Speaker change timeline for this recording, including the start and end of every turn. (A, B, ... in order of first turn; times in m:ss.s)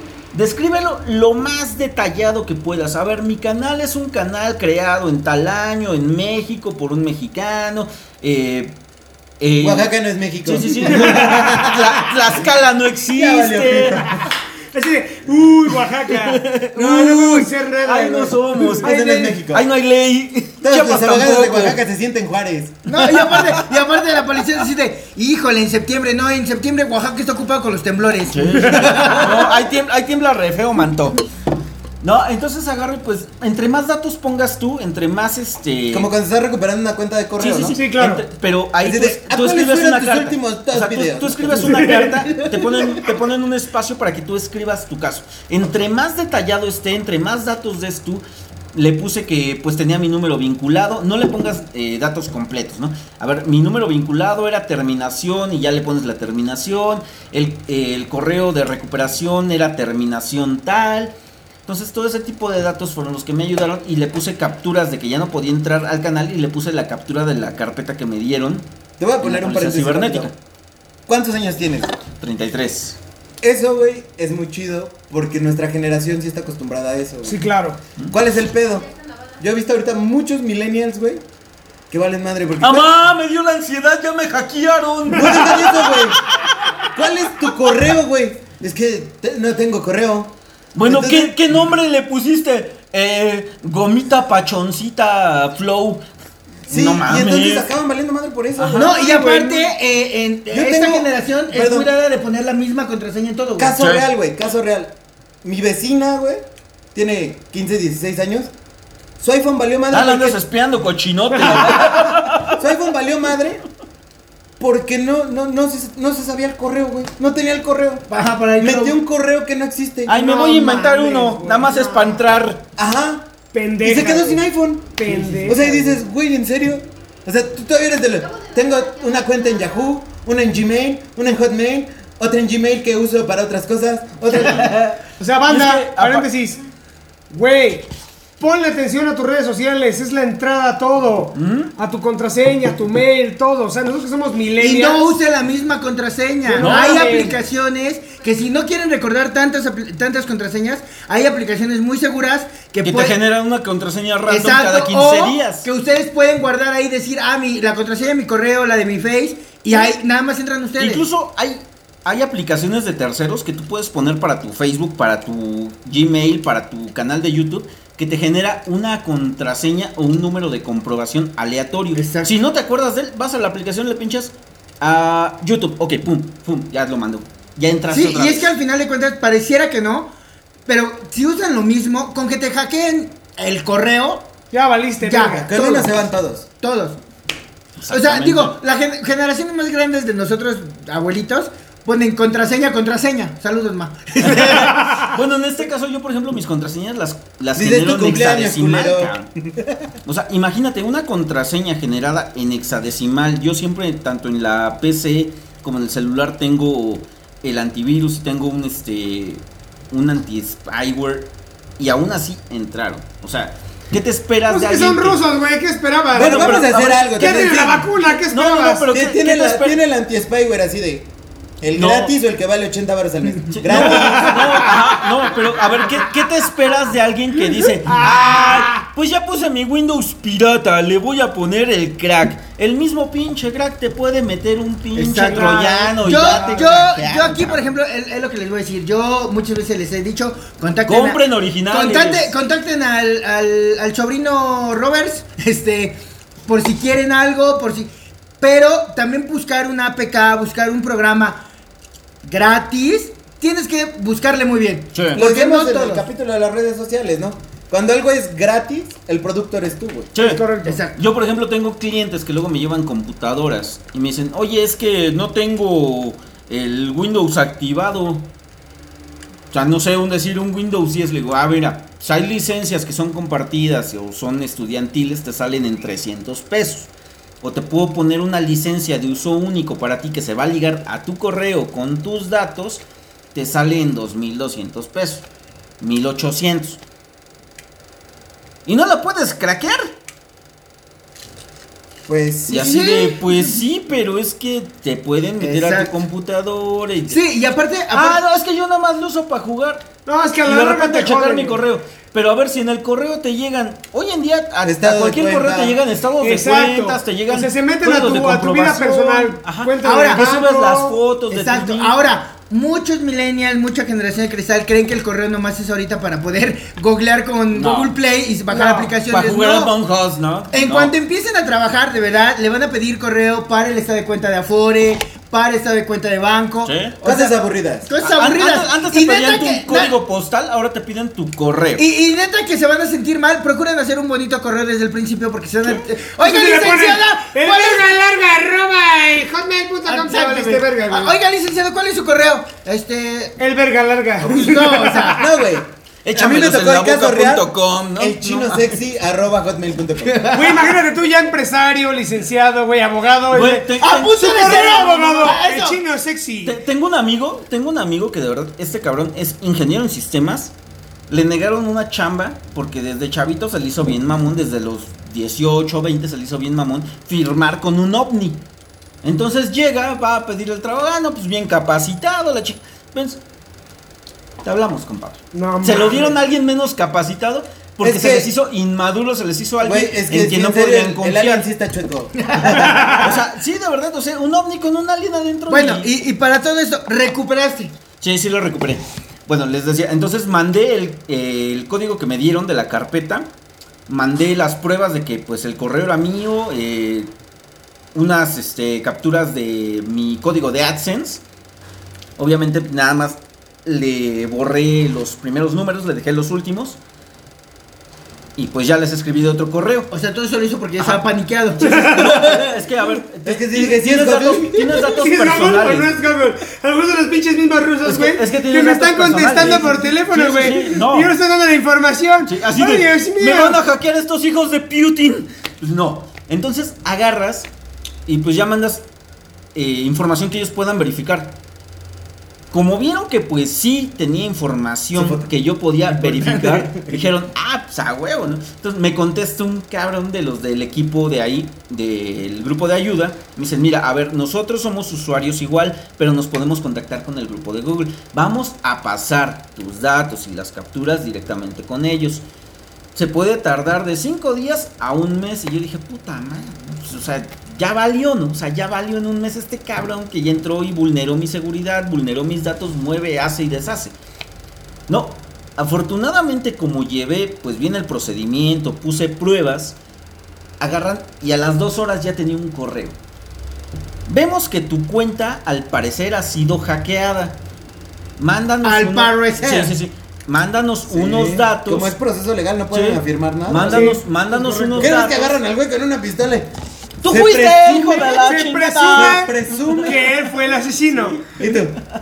0:00.3-0:08.8 A
0:09.4-0:09.9 A
0:09.6-0:12.1 B
0:10.4-0:14.1 A
0:11.0-0:11.3 C
0:13.1-0:14.2 B
0:14.7-0:19.3 C
0:16.1-0:21.8 A
0:18.8-0:19.6 B
0:20.6-0:22.9 B
0:22.9-0:29.6 D
0:23.0-0:23.9 A
0:28.3-0:31.2 A
0:32.0-0:36.1 A
0:35.9-0:37.8 B
0:37.4-1:01.2 A
0:37.7-0:38.2 C
0:38.8-0:41.6 B
0:41.6-0:42.3 C
1:01.7-1:08.7 A
1:09.0-1:10.3 B
1:09.2-1:10.3 A
1:11.1-1:12.0 B
1:12.2-1:13.0 A
1:13.4-1:17.4 B
1:17.2-1:17.8 C
1:18.1-1:21.2 B
1:21.9-1:22.9 B
1:22.6-1:26.2 A
1:25.1-1:26.2 B
1:26.9-1:31.4 B
1:30.8-1:36.0 A
1:36.7-1:37.7 A
1:36.7-1:39.5 B
1:38.6-1:39.0 A
1:38.8-1:43.7 D
1:39.0-1:39.7 C
1:40.5-1:41.9 B
1:43.6-1:48.5 B
1:43.8-1:44.1 A
1:49.2-1:50.4 B
1:49.9-1:52.6 A
1:51.4-1:53.6 B
1:54.6-1:58.1 B
1:58.1-1:59.0 D
1:58.6-2:00.2 B
2:00.1-2:02.6 A
2:00.1-2:02.2 C
2:02.8-2:15.0 B
2:03.5-2:06.0 C
2:15.2-2:16.6 C
2:15.5-2:16.3 A
2:17.3-2:17.9 C
2:18.4-2:25.2 C
2:21.4-2:21.7 A
2:24.6-2:33.2 D
2:26.5-2:27.4 C
2:26.6-2:27.3 A
2:32.8-2:35.7 A
2:34.3-2:41.0 D
2:40.8-2:58.5 A
2:52.0-2:52.3 D
2:57.9-3:00.1 D
3:00.7-3:04.3 D
3:04.5-3:05.6 C
3:05.0-3:06.0 D
3:05.3-3:06.5 B
3:06.6-3:07.0 D
3:07.8-3:08.6 A
3:07.9-3:15.0 D
3:14.2-3:19.3 A
3:17.6-3:19.8 B
3:20.0-3:35.2 A
3:34.5-3:38.9 C
3:36.1-3:37.9 B
3:36.2-3:39.8 A
3:38.9-3:41.1 B
3:41.6-3:44.8 B
3:41.7-3:42.2 A
3:43.5-3:57.7 A
3:44.1-3:44.6 C
3:47.9-3:48.8 C
3:55.0-4:11.4 D
3:56.2-3:56.7 C
4:00.9-4:02.4 A
4:12.2-4:16.1 D
4:14.9-4:15.2 A
4:15.1-4:20.1 B
4:20.1-4:28.3 A
4:20.2-4:20.8 C
4:20.6-4:21.0 D
4:29.5-4:42.8 A
4:43.3-4:45.2 A
4:45.8-4:46.8 A
4:48.7-4:49.9 A
4:52.1-4:52.7 B
4:52.5-4:57.2 A
4:52.5-4:53.6 D
4:55.4-4:56.0 D
4:57.1-4:58.2 D
4:57.9-4:59.9 A
5:00.1-5:01.6 C
5:00.4-5:12.0 A
5:04.6-5:05.8 B
5:06.2-5:11.0 C
5:09.8-5:10.2 D
5:11.3-5:19.7 D
5:17.5-5:17.9 A
5:18.5-5:18.9 C
5:19.1-5:20.9 A
5:20.5-5:27.3 D
5:26.6-5:27.0 A
5:27.0-5:27.9 B
5:27.9-5:29.9 D
5:28.0-5:31.8 A
5:31.8-5:37.9 D
5:36.1-5:41.2 C
5:39.9-5:43.4 D
5:43.4-5:45.2 C
5:44.2-5:45.3 D
5:45.2-5:50.3 B
5:46.0-5:48.8 A
5:50.0-5:50.7 D
5:50.3-5:56.6 C
5:53.3-5:55.4 A
5:53.8-5:55.8 D
5:56.4-6:00.5 A
6:01.1-6:08.4 A
6:09.0-6:13.2 A
6:14.4-6:21.5 A
6:15.3-6:16.2 C
6:17.8-6:18.3 B
6:19.6-6:23.0 B
6:22.2-6:23.2 D
6:22.5-6:25.9 A
6:25.5-6:27.7 D
6:28.0-6:33.3 A
6:33.9-6:37.1 A
6:37.9-6:41.2 A
6:42.2-6:46.8 A
6:48.4-6:49.9 A
6:49.9-6:52.4 D
6:51.6-6:52.2 C
6:51.8-6:56.0 A
6:53.2-6:54.6 B
6:54.8-7:03.6 C
6:57.8-7:01.1 A
7:02.2-7:07.5 A
7:08.1-7:08.8 A
7:09.5-7:11.4 A
7:12.5-7:32.2 A
7:15.0-7:15.2 B
7:33.0-7:44.0 A
7:44.9-7:49.8 A
7:50.6-7:53.0 A
7:54.1-7:57.4 A
7:58.2-8:02.0 A
7:58.6-7:59.7 D
8:00.9-8:04.0 B
8:02.7-8:05.3 A
8:03.6-8:05.0 C
8:04.8-8:06.5 B
8:07.0-8:10.0 A
8:07.0-8:08.2 B
8:08.1-8:11.3 C
8:08.9-8:10.1 B
8:11.2-8:11.7 A
8:11.3-8:11.8 B